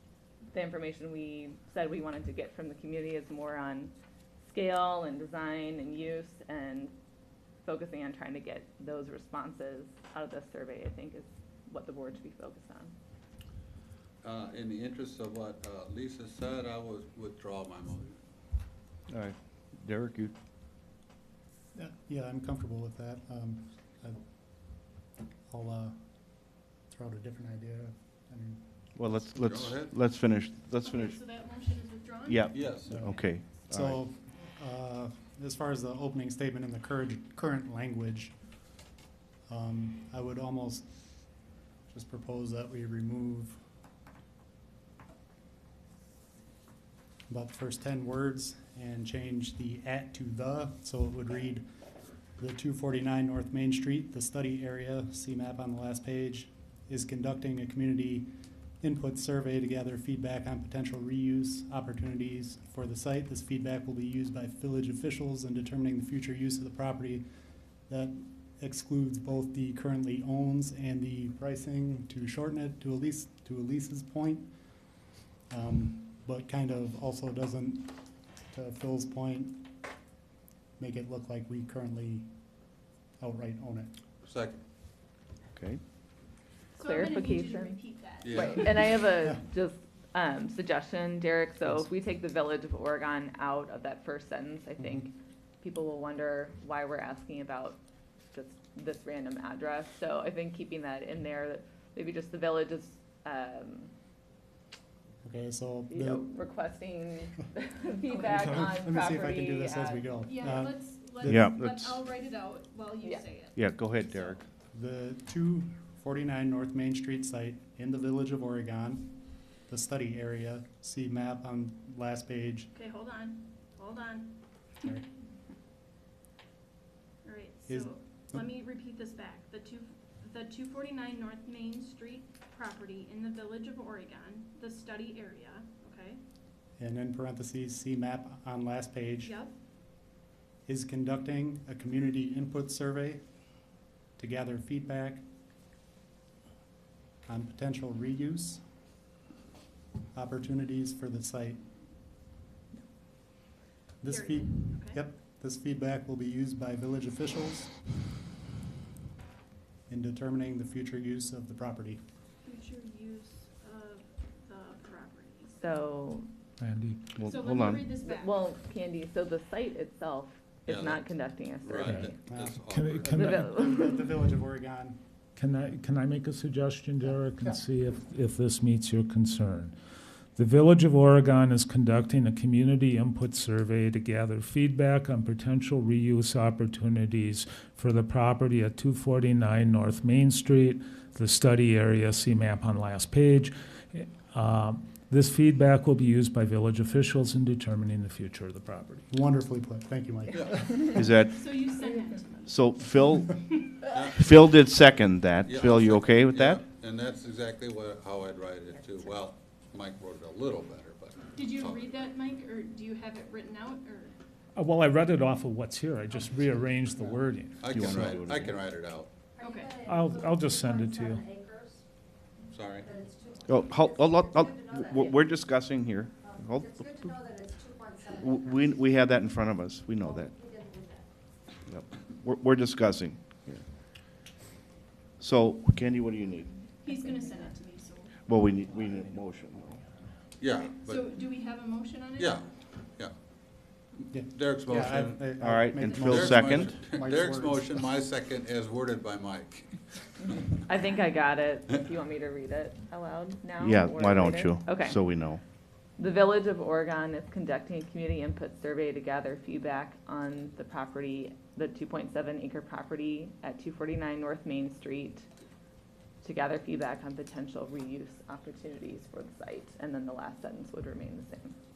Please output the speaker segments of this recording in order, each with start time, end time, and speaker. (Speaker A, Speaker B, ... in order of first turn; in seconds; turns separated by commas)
Speaker A: 0.5-3.9, Speaker A: 4.4-6.9, Speaker A: 7.6-12.9, Speaker B: 14.2-18.1, Speaker C: 19.1-20.3, Speaker D: 21.7-24.9, Speaker D: 25.5-29.3, Speaker C: 28.9-31.2, Speaker B: 29.4-29.9, Speaker E: 30.8-32.8, Speaker C: 32.3-34.0, Speaker B: 32.5-33.1, Speaker D: 32.5-38.3, Speaker D: 39.5-40.9, Speaker D: 41.9-43.6, Speaker D: 47.3-51.6, Speaker D: 52.4-58.3, Speaker D: 58.8-67.2, Speaker D: 67.9-74.8, Speaker D: 75.5-79.8, Speaker D: 80.8-82.3, Speaker D: 83.2-83.9, Speaker B: 84.2-84.6, Speaker C: 85.5-85.8, Speaker E: 86.7-88.8, Speaker A: 86.8-97.8, Speaker B: 88.2-89.0, Speaker A: 98.3-103.9, Speaker D: 105.2-106.3, Speaker A: 105.9-110.2, Speaker D: 108.0-111.5, Speaker E: 110.2-113.7, Speaker C: 111.2-112.1, Speaker C: 113.5-114.4, Speaker D: 114.7-122.7, Speaker E: 122.7-124.9, Speaker E: 127.2-136.2, Speaker D: 127.7-128.4, Speaker D: 136.8-139.4, Speaker E: 139.2-139.5, Speaker D: 140.7-143.2, Speaker D: 144.2-145.2, Speaker D: 147.2-148.6, Speaker D: 150.1-151.6, Speaker D: 154.0-157.8, Speaker E: 154.1-155.0, Speaker D: 159.9-162.0, Speaker E: 162.4-165.6, Speaker A: 165.6-166.3, Speaker F: 166.6-167.1, Speaker C: 167.2-167.9, Speaker E: 167.2-168.5, Speaker A: 167.9-172.2, Speaker B: 170.7-171.1, Speaker B: 171.6-173.3, Speaker F: 171.8-173.8, Speaker D: 172.2-172.6, Speaker A: 173.1-174.0, Speaker D: 173.3-175.0, Speaker F: 175.3-179.7, Speaker F: 180.3-199.1, Speaker D: 199.1-201.0, Speaker C: 200.9-201.6, Speaker E: 201.3-203.3, Speaker C: 202.4-203.4, Speaker B: 203.9-204.8, Speaker C: 204.1-206.7, Speaker B: 205.4-212.0, Speaker E: 211.3-214.2, Speaker F: 214.5-218.3, Speaker B: 217.6-219.1, Speaker C: 217.6-218.6, Speaker G: 219.4-221.8, Speaker E: 219.4-219.8, Speaker F: 219.8-221.2, Speaker B: 222.5-222.9, Speaker G: 222.8-223.8, Speaker C: 223.4-227.0, Speaker G: 224.6-225.1, Speaker G: 226.3-228.1, Speaker C: 228.1-230.3, Speaker G: 230.4-231.0, Speaker C: 231.7-233.6, Speaker C: 235.2-236.6, Speaker E: 236.8-238.3, Speaker C: 238.2-239.8, Speaker B: 240.4-241.0, Speaker E: 240.8-242.5, Speaker B: 242.2-243.1, Speaker D: 244.1-247.8, Speaker B: 244.3-245.4, Speaker C: 245.4-246.8, Speaker B: 246.1-249.7, Speaker A: 250.3-255.0, Speaker C: 253.6-255.4, Speaker A: 256.0-265.3, Speaker A: 266.2-271.6